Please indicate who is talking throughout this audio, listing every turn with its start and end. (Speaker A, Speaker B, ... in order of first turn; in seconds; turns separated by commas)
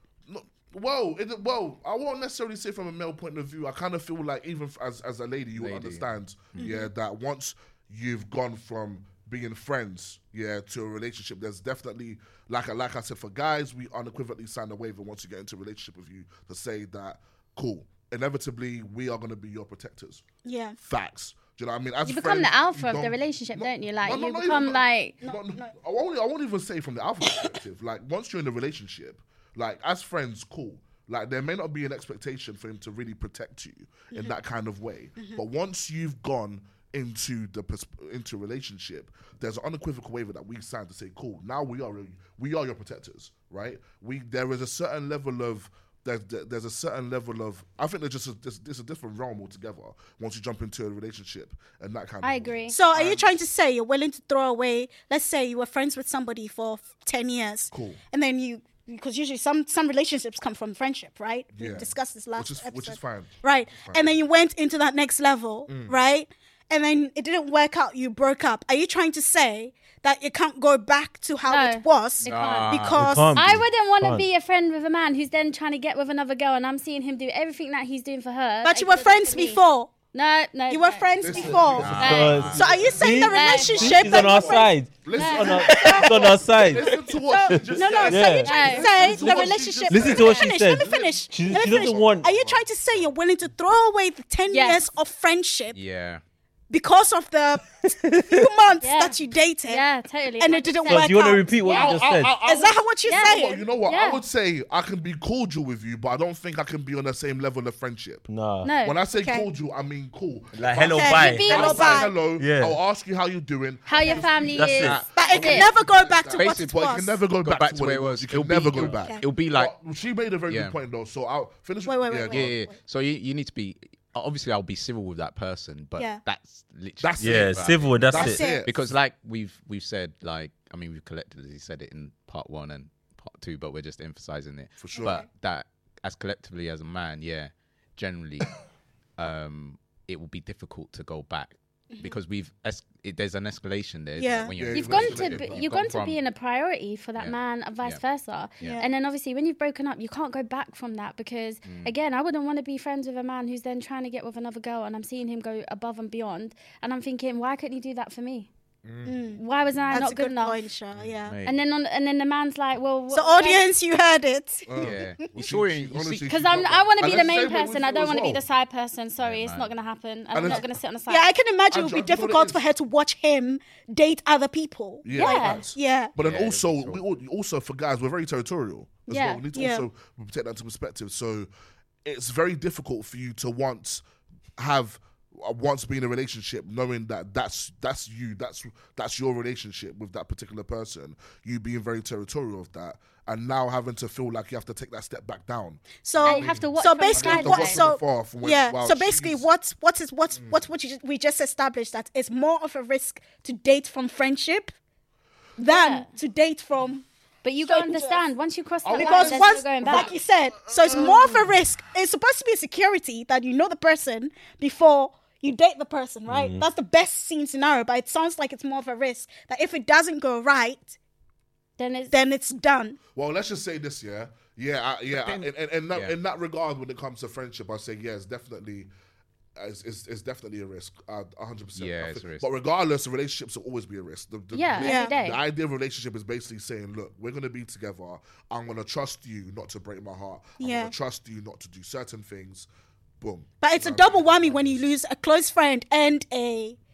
Speaker A: 0.3-20.3, Speaker B: 5.6-6.1, Speaker C: 6.5-6.9, Speaker C: 20.4-20.8, Speaker A: 20.8-53.3, Speaker D: 22.1-25.2, Speaker C: 25.2-25.7, Speaker C: 34.1-34.4, Speaker D: 52.2-52.8, Speaker C: 52.7-73.5, Speaker A: 57.7-58.0, Speaker A: 61.5-64.2, Speaker A: 65.7-66.0, Speaker D: 71.5-79.6, Speaker B: 72.2-73.1, Speaker E: 73.0-74.3, Speaker C: 78.6-79.9, Speaker D: 80.1-82.4, Speaker C: 80.7-84.7, Speaker A: 81.2-93.0, Speaker B: 81.8-82.9, Speaker E: 81.9-86.9, Speaker D: 83.3-84.6, Speaker D: 85.1-85.9, Speaker C: 85.3-95.8, Speaker D: 87.3-89.0, Speaker E: 88.1-89.3, Speaker E: 89.9-92.2, Speaker D: 94.5-94.8, Speaker B: 95.7-96.2, Speaker C: 96.7-99.8, Speaker D: 98.8-101.9, Speaker C: 100.4-101.8, Speaker E: 100.9-102.4, Speaker A: 101.7-108.3, Speaker C: 102.4-103.6, Speaker D: 103.1-104.2, Speaker E: 108.3-108.7, Speaker D: 108.6-109.0, Speaker A: 108.8-122.5, Speaker C: 109.2-109.5, Speaker E: 110.5-112.8, Speaker C: 110.8-112.2, Speaker D: 111.2-112.0, Speaker D: 113.9-115.7, Speaker E: 114.5-115.0, Speaker C: 115.1-117.2, Speaker B: 116.3-119.7, Speaker C: 119.0-119.3, Speaker B: 120.5-120.8, Speaker C: 121.8-122.8, Speaker B: 122.3-138.6, Speaker C: 126.0-126.2, Speaker A: 127.0-128.8, Speaker E: 127.2-128.5, Speaker C: 128.2-128.7, Speaker A: 134.8-135.2, Speaker C: 134.9-135.3, Speaker B: 139.2-146.2, Speaker C: 141.9-142.2, Speaker C: 144.2-144.5, Speaker A: 144.6-145.9, Speaker D: 144.7-158.5, Speaker B: 147.2-148.0, Speaker C: 148.6-148.9, Speaker B: 151.7-151.9, Speaker A: 158.8-159.2, Speaker C: 159.1-161.4, Speaker D: 159.4-160.6, Speaker B: 161.2-161.6, Speaker D: 161.4-163.6, Speaker C: 163.1-165.3, Speaker A: 164.7-168.4, Speaker B: 164.8-166.3, Speaker D: 166.3-171.3, Speaker B: 169.2-169.7, Speaker A: 170.3-170.7, Speaker C: 170.4-176.2, Speaker A: 171.7-172.6, Speaker A: 175.0-181.5, Speaker D: 175.1-175.6, Speaker B: 176.2-177.0, Speaker D: 179.1-179.4, Speaker C: 179.5-179.9, Speaker A: 182.1-184.0, Speaker A: 184.6-199.5, Speaker C: 195.9-204.8, Speaker D: 196.2-197.9, Speaker A: 200.3-200.6, Speaker C: 205.6-207.1, Speaker D: 205.7-206.1, Speaker D: 207.4-210.1, Speaker C: 207.6-208.2, Speaker A: 208.8-211.6, Speaker C: 208.9-221.0, Speaker E: 216.3-216.7, Speaker D: 221.8-222.1, Speaker C: 222.1-223.0, Speaker A: 223.1-228.9, Speaker B: 225.1-226.2, Speaker A: 229.6-242.7, Speaker B: 231.8-232.5, Speaker D: 234.5-235.4, Speaker C: 234.8-235.2, Speaker C: 240.6-240.9, Speaker A: 243.2-244.9, Speaker C: 243.6-246.8